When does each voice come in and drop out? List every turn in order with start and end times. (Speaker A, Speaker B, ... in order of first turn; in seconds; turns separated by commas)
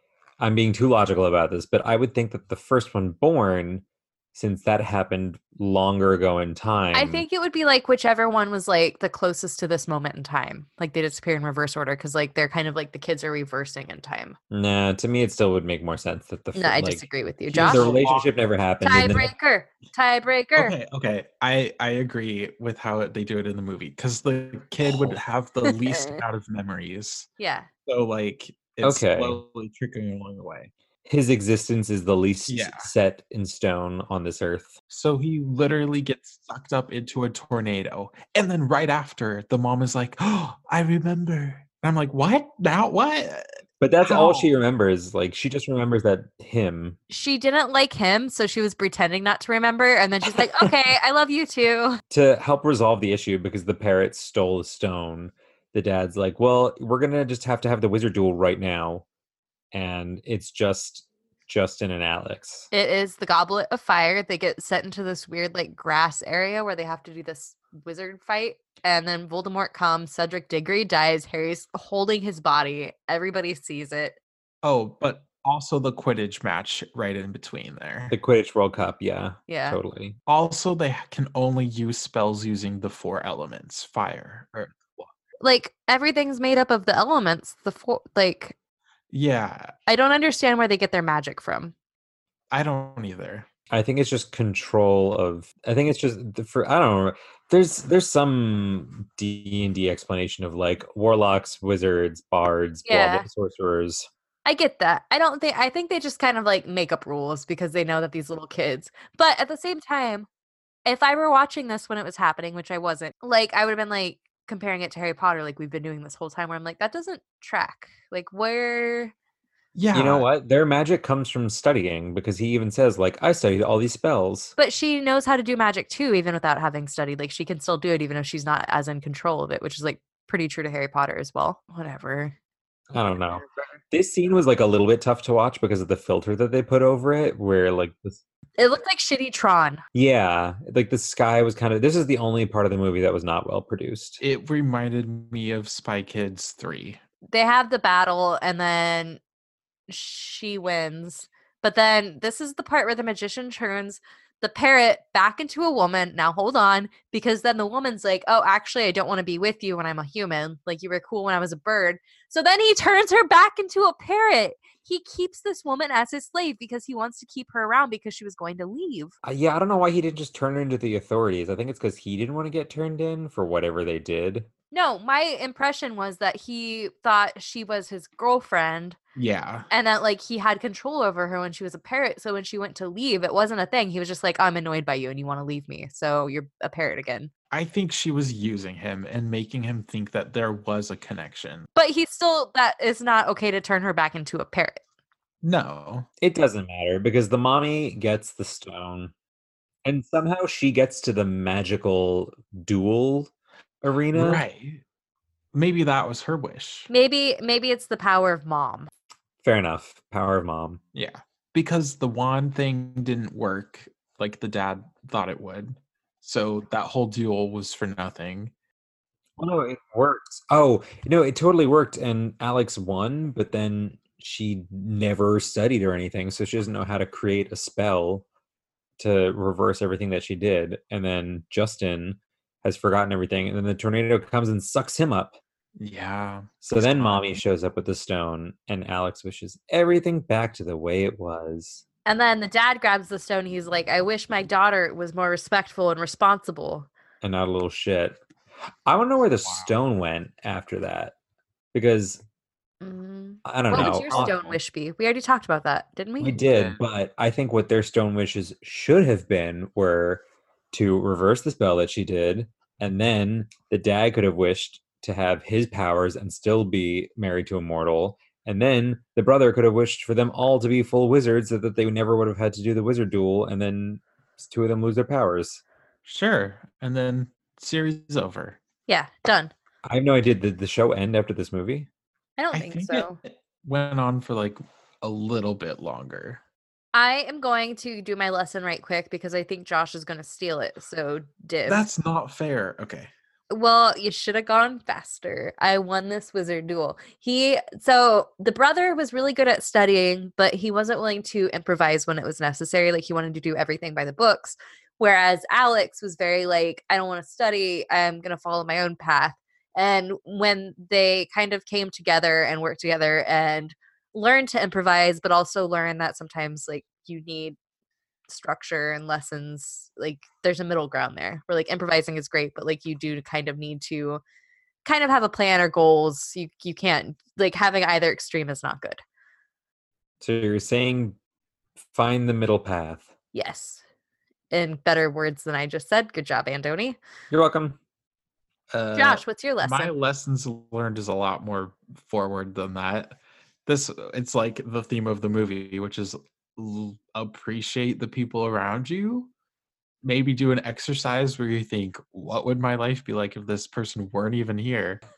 Speaker A: 0.4-7.2, Speaker B: 6.9-14.3, Speaker A: 14.5-19.3, Speaker B: 16.5-17.9, Speaker C: 17.5-18.3, Speaker B: 18.8-20.7, Speaker C: 20.6-27.3, Speaker B: 25.8-26.2, Speaker B: 27.4-27.7, Speaker C: 27.9-30.7, Speaker A: 28.8-29.4, Speaker A: 31.1-34.8, Speaker C: 32.5-32.9, Speaker C: 34.9-43.4, Speaker A: 43.8-47.0, Speaker C: 44.0-44.5, Speaker B: 47.1-52.0, Speaker A: 50.4-50.7, Speaker A: 52.1-59.0, Speaker A: 59.7-62.7, Speaker B: 62.7-74.2, Speaker C: 74.6-78.2, Speaker A: 78.1-80.2, Speaker B: 79.5-79.8, Speaker C: 80.3-85.1, Speaker B: 85.4-88.5, Speaker C: 89.1-89.7, Speaker B: 89.9-91.7, Speaker C: 92.5-93.5, Speaker A: 93.7-104.1, Speaker B: 102.8-103.2, Speaker B: 104.4-110.3, Speaker B: 110.8-119.1, Speaker C: 119.7-120.3, Speaker A: 119.9-124.5, Speaker B: 124.6-132.3, Speaker A: 132.9-138.2, Speaker B: 133.3-133.8, Speaker B: 138.6-139.8, Speaker A: 139.9-144.2, Speaker C: 144.2-147.0, Speaker B: 147.3-149.2, Speaker B: 149.9-169.1, Speaker A: 169.2-174.5, Speaker B: 174.7-179.0, Speaker C: 179.2-179.7, Speaker B: 179.7-187.3, Speaker C: 187.5-191.7, Speaker B: 191.8-194.8, Speaker C: 195.4-196.1, Speaker A: 196.2-199.1, Speaker A: 199.8-203.3, Speaker A: 203.8-204.4, Speaker C: 204.1-204.8, Speaker C: 205.5-206.9, Speaker B: 206.9-208.9, Speaker A: 209.4-210.8, Speaker C: 210.9-218.5, Speaker A: 219.4-228.2, Speaker A: 229.0-235.4, Speaker C: 235.8-237.4, Speaker A: 236.6-241.8, Speaker B: 242.1-246.9, Speaker A: 247.2-248.2, Speaker A: 248.8-251.1, Speaker C: 249.4-249.7, Speaker A: 251.7-252.2, Speaker B: 252.8-256.4, Speaker A: 253.4-254.6, Speaker C: 253.7-254.3, Speaker A: 256.2-275.6, Speaker C: 256.3-256.8, Speaker C: 276.0-278.6, Speaker B: 278.9-279.5, Speaker A: 279.9-281.9, Speaker B: 282.4-283.2, Speaker C: 282.5-286.4, Speaker B: 286.9-291.9, Speaker C: 291.6-293.1, Speaker B: 293.5-317.6, Speaker B: 318.3-324.2, Speaker B: 324.8-329.0, Speaker A: 330.2-331.1, Speaker A: 331.9-333.1, Speaker B: 333.3-333.8, Speaker B: 334.5-337.0, Speaker A: 337.3-337.8, Speaker C: 338.7-349.3, Speaker B: 338.9-339.9, Speaker C: 350.0-355.0